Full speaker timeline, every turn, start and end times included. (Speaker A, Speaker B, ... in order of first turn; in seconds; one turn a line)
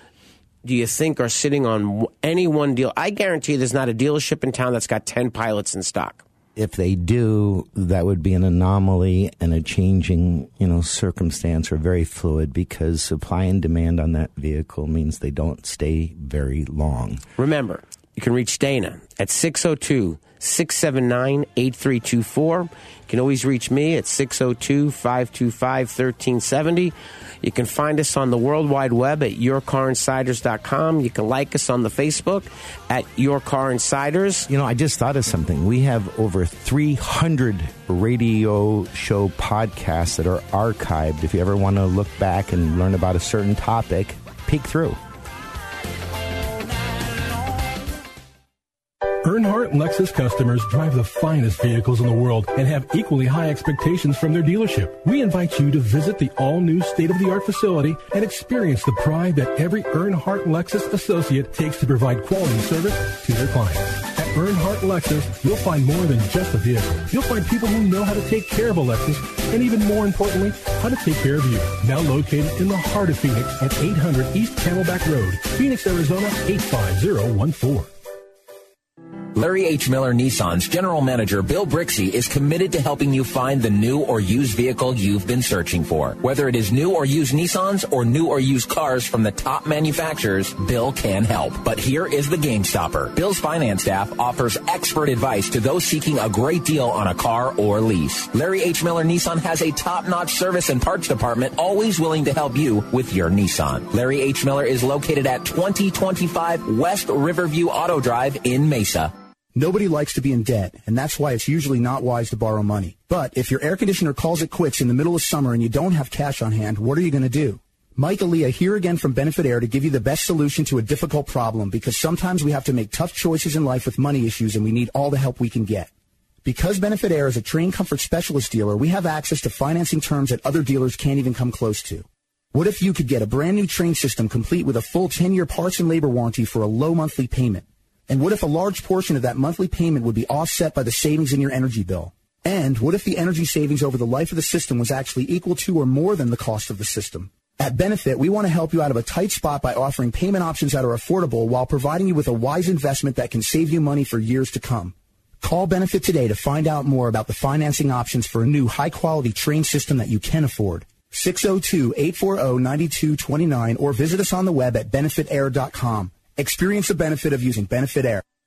Speaker A: 0.6-6.2
Speaker B: 6.5-17.2
Speaker A: 17.4-34.5
Speaker B: 34.5-45.0
Speaker C: 49.2-77.9
Speaker D: 79.3-109.1
Speaker E: 109.5-125.9
Speaker E: 126.4-168.2